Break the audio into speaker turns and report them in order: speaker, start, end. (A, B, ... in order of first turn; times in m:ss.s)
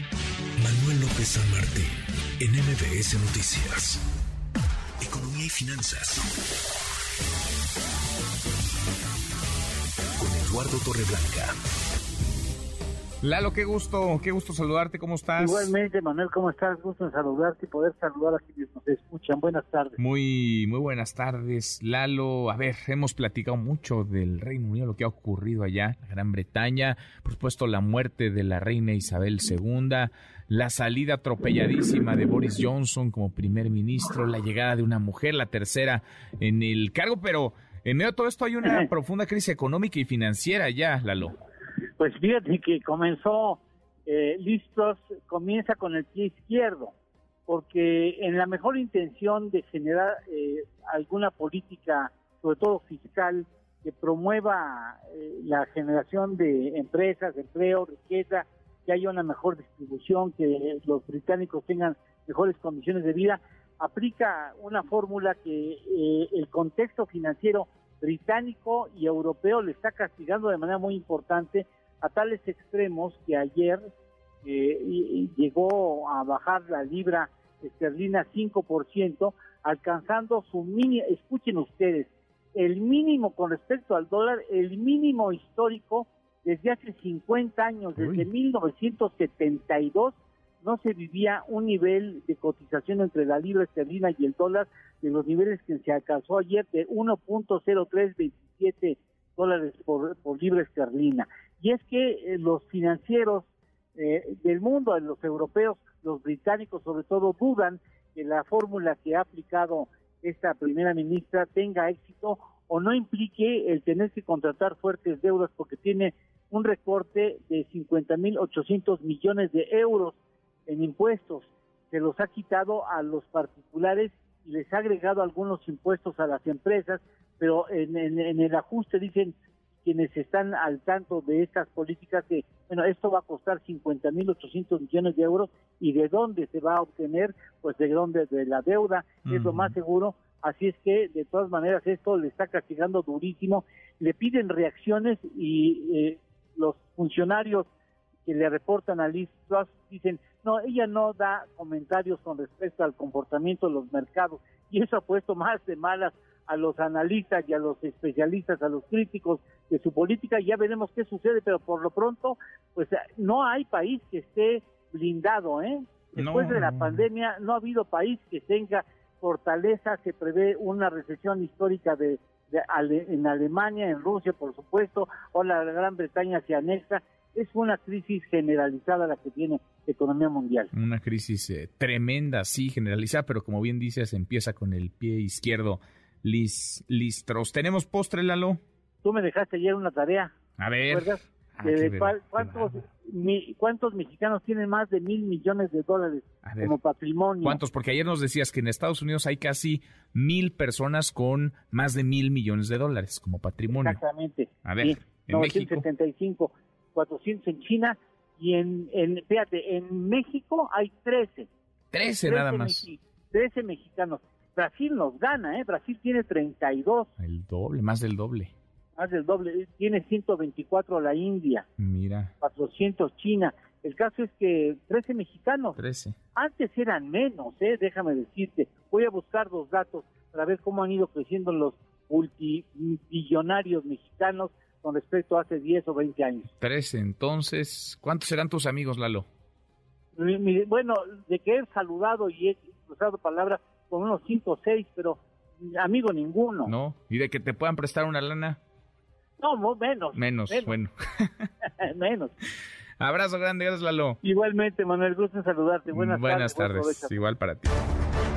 0:00.6-0:01.8 A
0:00.6-0:01.8 B
0:02.4-0:03.9 B
0:03.2-0:03.8 A
0:05.0-0:06.0 B
0:05.6-0:06.1 A
0:10.2-0:11.4 B
0:10.2-0:11.5 A
0:13.2-0:15.7 A
0:15.4-0:20.0 C
0:20.0-0:41.4 A
0:42.0-0:46.9 C
0:47.5-1:13.9 C
1:14.4-2:27.7 C
2:19.2-2:19.8 A
2:28.2-3:00.7 C
2:46.2-2:47.0 A
3:00.7-3:08.6 A
3:09.0-3:10.3 C
3:10.6-3:12.7 A
3:10.9-3:17.6 C
3:16.4-3:16.8 A
3:17.4-3:24.0 A
3:23.7-3:31.5 C
3:24.6-3:25.8 A
3:31.9-3:32.9 A
3:32.2-3:37.1 C
3:37.2-3:38.5 A
3:39.0-3:41.7 C
3:41.8-3:42.3 A
3:42.4-3:45.8 C
3:45.8-3:46.2 A
3:46.4-3:56.5 C
3:56.6-3:59.3 A
4:00.2-4:06.7 C
4:06.7-4:08.6 A
4:09.4-4:10.8 C
4:10.2-4:11.5 A
4:11.8-4:12.3 C
4:13.0-4:14.2 A
4:14.2-4:17.2 C
4:15.9-4:17.8 A